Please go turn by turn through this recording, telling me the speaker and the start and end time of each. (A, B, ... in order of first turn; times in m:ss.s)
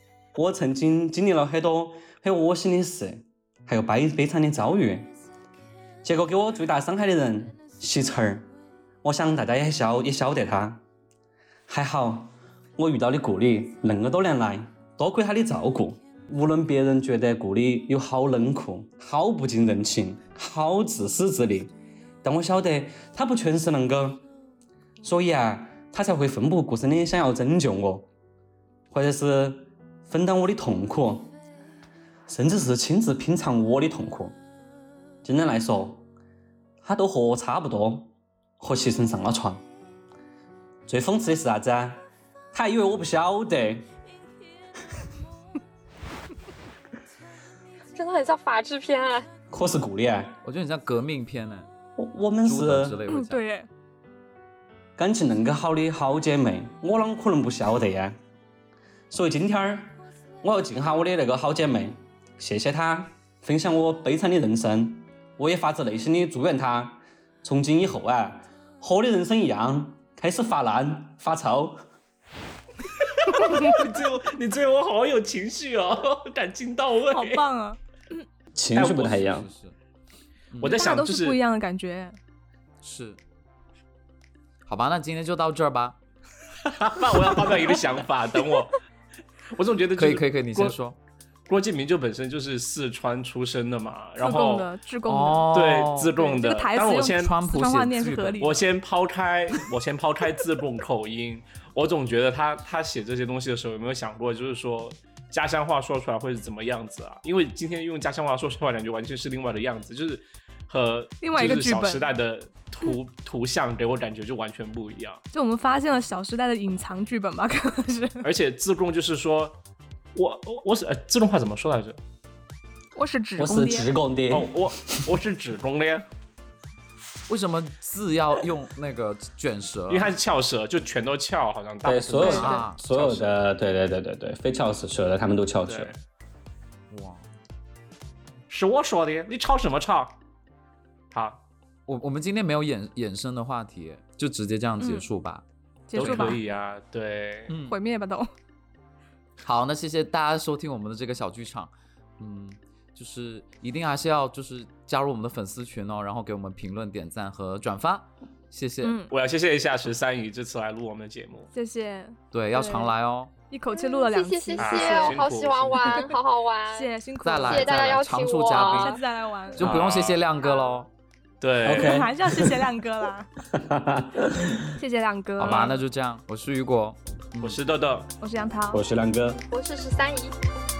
0:00.4-0:05.1 A
0:06.0-0:08.4 A
0:09.0-0:10.8 A
0:11.7-0:21.7 A
0:22.2-0:24.2 A
0:25.0-0:28.1 A
0:28.9-0:31.3 A
0:32.3-0:34.4 A
0:35.2-0:36.0 A
0:36.8-0:39.6 A
0:40.9-0:42.0 A
0:42.5-0:43.8 A
0:47.9-0:49.3 B
0:49.5-0:50.3 A
0:50.4-0:51.7 C
0:52.0-0:53.0 A
0:52.4-0:53.4 C
0:53.1-0:53.7 D
0:55.0-0:58.1 A
0:59.1-1:11.8 A
1:13.1-1:17.4 E
1:13.4-1:13.8 D
1:17.1-1:18.2 D
1:18.5-1:19.5 A
1:18.7-1:19.2 E
1:19.1-1:19.7 C
1:20.5-1:20.8 C
1:20.6-1:21.4 E
1:20.6-1:22.2 D
1:22.8-1:23.2 C
1:24.6-1:26.0 C
1:26.6-1:28.8 E
1:29.5-1:30.8 E
1:30.0-1:31.0 C
1:31.5-1:34.7 E
1:34.2-1:35.6 D
1:35.0-1:36.1 C
1:35.5-1:37.3 E
1:36.1-1:38.6 D
1:37.1-1:38.4 C
1:38.4-1:55.2 E
1:51.2-1:52.1 D
1:55.3-1:58.3 D
1:58.2-1:59.6 E
2:00.1-2:02.0 E
2:02.9-2:03.9 D
2:03.4-2:05.0 A
2:04.3-2:06.0 E
2:07.3-2:10.1 C
2:09.9-2:13.3 E
2:11.8-2:15.9 A
2:12.2-2:12.6 D
2:12.2-2:12.8 C
2:15.7-2:16.0 E
2:16.9-2:17.3 C
2:18.5-2:20.2 E
2:21.1-2:21.4 E
2:21.9-2:25.4 C
2:24.8-2:25.0 D
2:25.9-2:26.4 D
2:25.9-2:27.5 E
2:26.0-2:26.4 C
2:27.5-2:27.8 C
2:27.7-2:28.3 D
2:29.4-2:39.0 C
2:38.8-2:39.1 D
2:39.1-2:41.5 E
2:41.5-2:42.9 D
2:42.3-2:43.3 C
2:43.5-2:45.2 D
2:43.7-2:46.9 B
2:44.6-2:46.1 E
2:46.7-2:49.7 D
2:47.2-2:49.0 C
2:47.4-2:49.0 B
2:49.5-2:50.9 C
2:49.6-2:50.2 E
2:51.4-2:52.1 E
2:51.6-2:52.6 A
2:51.7-2:53.3 D
2:53.5-2:54.7 A
2:54.8-2:55.8 D
2:55.4-2:57.6 C
2:57.4-2:58.1 E
2:58.2-2:58.8 D
2:58.7-2:59.4 A
2:59.5-3:00.3 B